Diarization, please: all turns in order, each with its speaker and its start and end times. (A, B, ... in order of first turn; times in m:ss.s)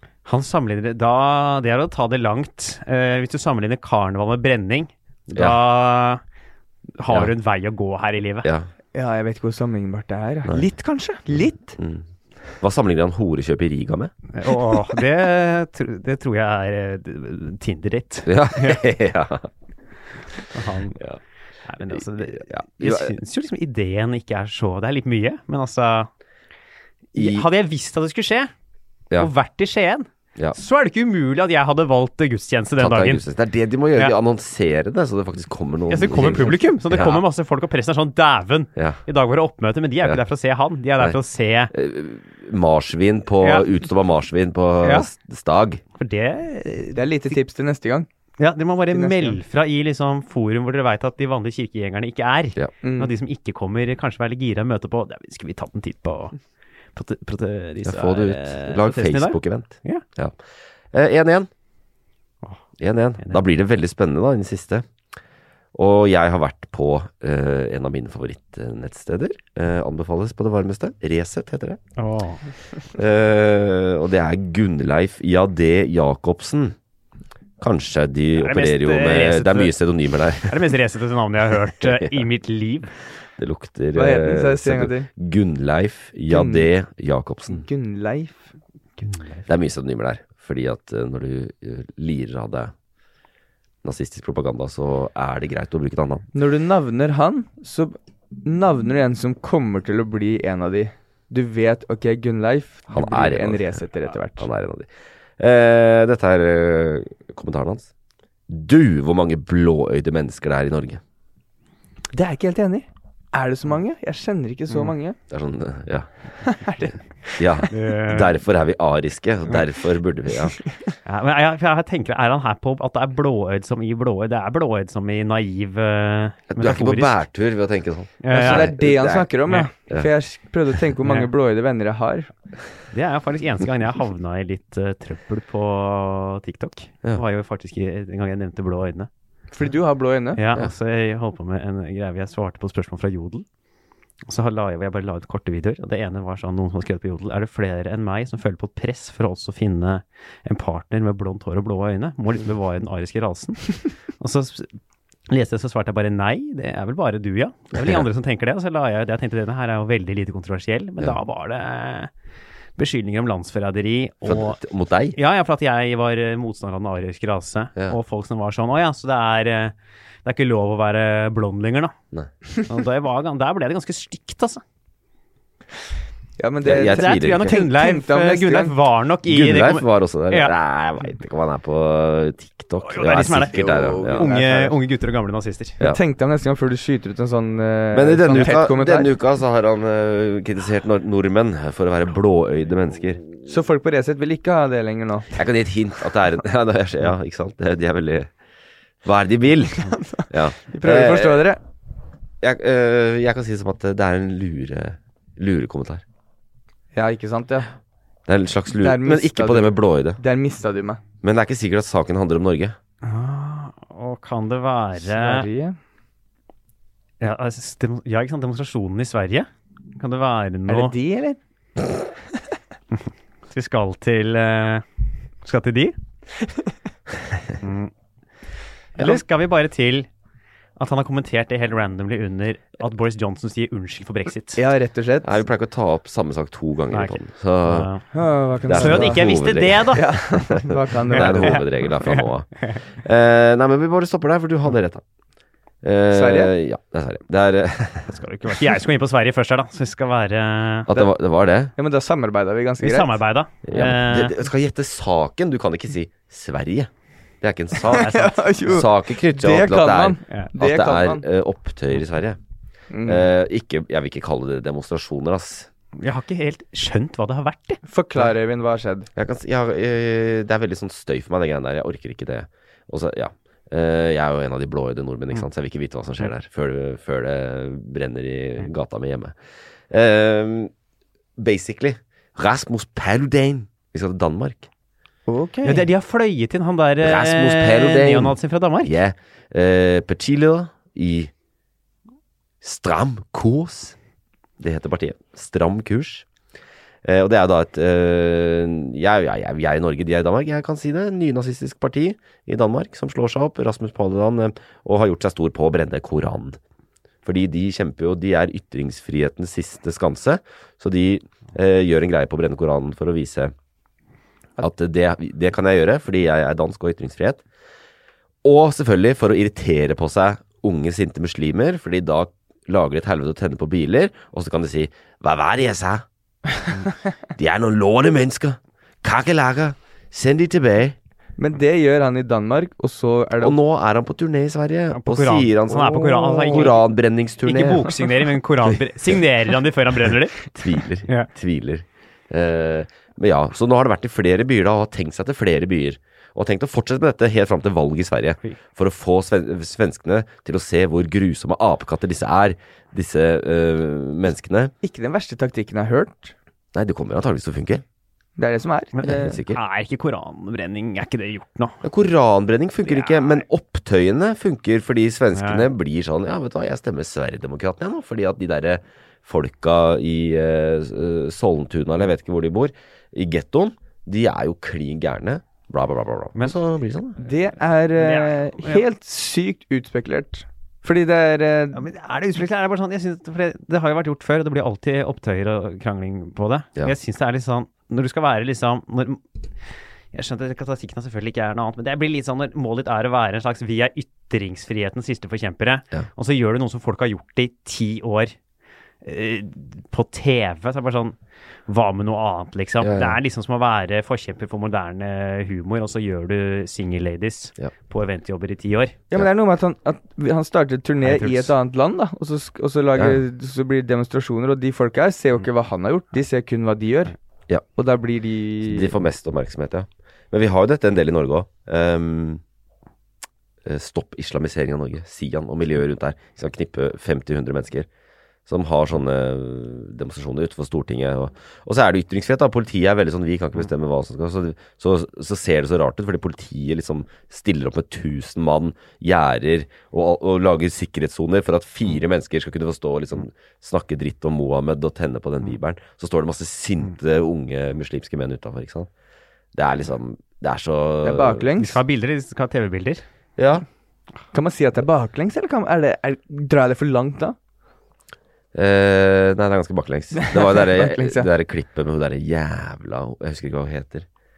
0:00.3-0:06.2 A
0:05.3-0:05.6 B
0:07.0-0:08.5 A
0:08.9-0:11.7 C
0:11.8-0:12.0 B
0:12.6-0:14.1 B
0:14.3-0:18.8 A
0:18.3-0:19.5 B
0:20.5-0:21.0 A
0:21.7-0:26.1 A
0:21.9-0:23.1 B
0:27.1-0:28.5 A
0:27.2-0:27.5 B
0:29.2-0:33.2 A
0:32.8-0:37.2 B
0:35.9-0:41.7 A
0:41.7-0:45.8 B
0:43.4-0:43.7 A
0:44.8-0:45.1 A
0:46.0-0:47.3 A
0:47.0-0:48.1 C
0:48.4-0:56.4 A
0:48.9-0:49.4 C
0:52.8-0:53.1 C
0:57.0-1:00.0 A
0:57.8-1:00.4 B
1:00.9-1:01.5 B
1:02.8-1:04.9 B
1:05.8-1:11.8 B
1:12.0-1:12.4 A
1:12.9-1:16.8 B
1:17.6-1:20.6 B
1:18.4-1:19.7 A
1:20.4-1:22.9 A
1:21.8-1:22.2 B
1:23.4-1:27.6 B
1:24.0-1:25.1 C
1:26.3-1:26.7 C
1:27.5-1:28.5 C
1:29.0-1:29.5 A
1:29.5-1:32.7 B
1:33.8-1:36.3 B
1:36.3-1:44.5 C
1:42.9-1:43.8 B
1:44.4-1:47.9 B
1:48.5-1:51.0 B
1:52.1-1:55.2 C
1:55.3-1:56.1 B
1:56.4-1:56.9 C
1:57.4-2:00.6 B
1:57.7-1:58.3 A
2:01.0-2:07.2 A
2:06.5-2:09.3 B
2:08.2-2:08.8 A
2:08.3-2:12.3 C
2:11.0-2:11.3 A
2:12.9-2:19.1 A
2:19.5-2:20.4 C
2:20.4-2:23.4 A
2:24.3-2:34.7 A
2:35.3-2:42.1 A
2:37.8-2:38.0 B
2:42.8-2:44.6 A
2:44.2-2:45.2 B
2:45.2-2:52.0 A
2:52.7-2:54.6 A
2:56.4-2:58.8 C
2:56.6-2:57.6 B
2:56.8-3:00.5 A
2:59.3-3:04.3 B
3:02.8-3:05.8 A
3:03.5-3:04.8 C
3:05.8-3:09.1 C
3:07.9-3:13.2 B
3:13.5-3:15.3 C
3:15.4-3:18.3 B
3:19.0-3:21.5 B
3:19.8-3:21.6 C
3:22.4-3:26.0 B
3:26.9-3:27.7 C
3:28.3-3:30.2 B
3:28.8-3:31.0 C
3:31.2-3:32.8 B
3:33.0-3:35.5 A
3:35.0-3:35.8 C
3:37.2-3:40.9 A
3:40.7-3:41.4 C
3:43.5-3:44.8 A
3:45.4-3:46.0 A
3:47.6-3:47.9 A
3:49.0-3:50.1 A
3:50.8-3:54.6 A
3:54.6-3:55.4 C
3:55.2-3:57.9 B
3:56.9-3:58.0 A
3:58.1-3:59.3 C
3:58.6-4:00.5 B
3:58.7-4:00.2 A
3:59.9-4:01.7 C
4:01.1-4:05.0 B
4:01.1-4:02.8 A
4:05.8-4:08.1 B
4:06.1-4:06.5 C
4:08.1-4:10.9 A
4:10.9-4:11.7 B
4:11.8-4:13.2 C
4:12.8-4:14.4 A
4:13.7-4:16.9 B
4:17.4-4:22.4 B
4:17.9-4:21.2 C
4:17.9-4:18.7 A
4:22.9-4:23.3 C
4:23.0-4:25.7 B
4:26.0-4:27.8 A
4:27.9-4:29.1 C
4:29.2-4:39.4 B
4:39.9-4:40.7 B
4:41.4-4:44.7 B
4:45.3-4:45.9 C
4:45.6-4:48.9 A
4:47.0-4:51.3 B
4:52.6-4:54.0 B
4:54.6-4:56.3 B
4:57.0-5:06.6 B
5:07.2-5:13.5 B
5:14.6-5:17.4 B
5:18.4-5:26.0 B
5:27.4-5:31.0 B
5:31.4-5:33.6 C
5:33.4-5:37.9 B
5:34.9-5:36.8 A
5:36.4-5:36.7 C
5:37.4-5:40.4 A
5:40.5-5:54.7 B
5:54.8-5:56.3 C
5:56.7-5:57.8 B
5:58.4-5:59.4 C
5:59.0-6:01.8 A
5:59.1-5:59.6 B
6:01.8-6:17.2 B
6:02.9-6:03.4 A
6:05.3-6:05.7 A
6:17.2-6:21.8 C
6:18.0-6:18.8 A
6:21.7-6:29.2 A
6:30.1-6:38.4 A
6:39.0-6:41.2 A
6:41.7-6:49.0 A
6:42.8-6:43.2 B
6:49.1-6:57.2 C
6:51.1-6:51.5 B
6:53.0-6:53.2 B
6:57.8-6:59.0 C
6:58.6-7:02.4 B
7:03.6-7:07.9 B
7:08.5-7:28.9 B
7:29.5-7:31.5 B
7:31.0-7:31.8 C
7:31.6-7:33.0 A
7:33.4-7:33.6 B
7:34.3-7:37.4 C
7:38.6-7:44.1 B
7:40.2-7:41.3 C